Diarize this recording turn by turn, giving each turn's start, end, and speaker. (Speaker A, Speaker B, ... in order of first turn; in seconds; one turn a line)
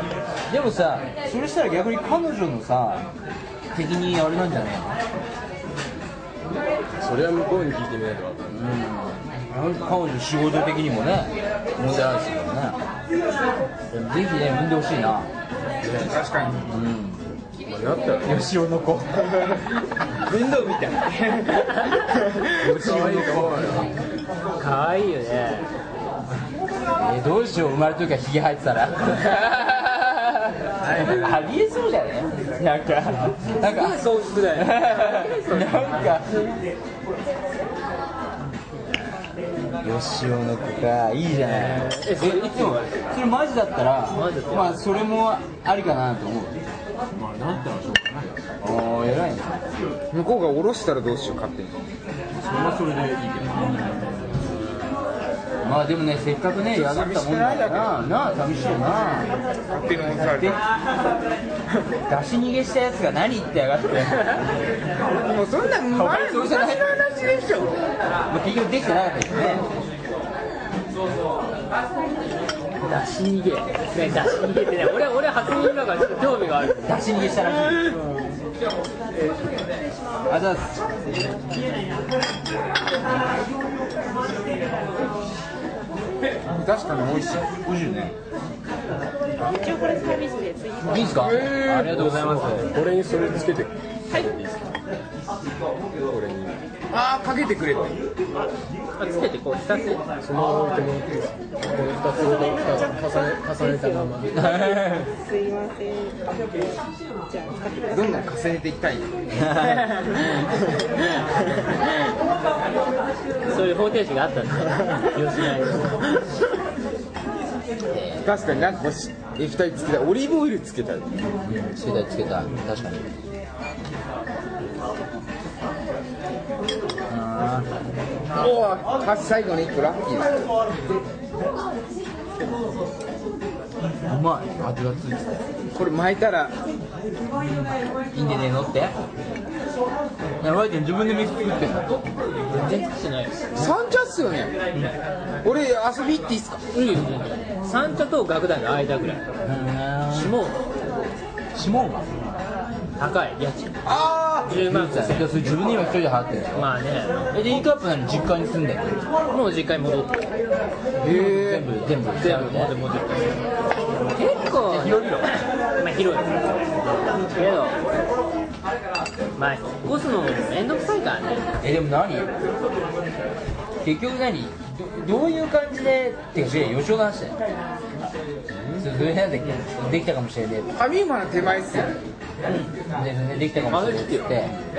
Speaker A: 0.5-3.1
Speaker A: 3.7-5.0
Speaker B: 7.0-8.6
Speaker A: 8.5-12.8
Speaker A: 13.9-15.3
Speaker B: 15.8-16.2
Speaker C: 15.9-16.6
Speaker A: 16.6-17.2
Speaker B: 17.7-18.4
Speaker A: 18.2-19.4
Speaker C: 20.2-23.3
Speaker B: 22.6-23.9
Speaker A: 22.6-23.9
Speaker D: 24.6-25.7
Speaker A: 26.9-36.4
Speaker D: 33.6-36.2
Speaker A: 39.8-46.6
Speaker D: 41.4-42.9
Speaker D: 44.1-44.8
Speaker B: 47.1-48.6
Speaker A: 48.6-49.7
Speaker C: 50.1-51.8
Speaker B: 52.3-54.1
Speaker A: 53.7-54.0
Speaker A: 55.6-59.3
Speaker C: 56.7-58.0
Speaker C: 59.7-60.6
Speaker A: 60.2-60.6
Speaker A: 62.1-64.4
Speaker C: 65.1-67.8
Speaker A: 65.9-67.4
Speaker A: 68.3-69.7
Speaker D: 72.8-77.0
Speaker A: 76.8-78.0
Speaker A: 80.3-80.8
Speaker C: 86.5-87.5
Speaker A: 87.6-88.1
Speaker E: 89.4-91.4
Speaker A: 90.8-92.7
Speaker B: 90.9-94.8
Speaker B: 96.0-96.6
Speaker C: 96.9-97.9
Speaker D: 99.0-100.0
Speaker B: 100.2-104.6
Speaker E: 102.2-106.6
Speaker A: 104.3-105.1
Speaker E: 107.3-108.3
Speaker C: 107.9-110.8
Speaker A: 109.3-109.9
Speaker D: 113.5-116.0
Speaker A: 117.9-118.4
Speaker C: 118.2-121.3
Speaker A: 121.4-123.1
Speaker A: 127.1-127.7
Speaker C: 128.3-130.4
Speaker A: 134.1-135.4
Speaker C: 135.7-136.5
Speaker A: 138.1-138.9
Speaker A: 140.4-141.9
Speaker D: 142.5-143.4
Speaker C: 143.5-144.5
Speaker C: 145.4-146.6
Speaker D: 146.7-149.2
Speaker A: 149.4-150.3
Speaker D: 150.1-150.6
Speaker A: 151.5-152.1
Speaker D: 153.0-153.8
Speaker C: 153.8-154.6
Speaker D: 154.5-155.4
Speaker A: 154.6-156.7
Speaker D: 156.5-157.2
Speaker A: 157.3-159.0
Speaker D: 159.3-160.3
Speaker C: 161.0-161.7
Speaker A: 161.0-162.8
Speaker D: 162.2-163.4
Speaker D: 164.1-167.8
Speaker A: 164.7-165.3
Speaker D: 169.3-171.5
Speaker A: 171.6-172.3
Speaker A: 173.8-177.4
Speaker A: 178.7-180.8
Speaker C: 180.7-181.9
Speaker A: 182.4-184.5
Speaker D: 183.7-184.5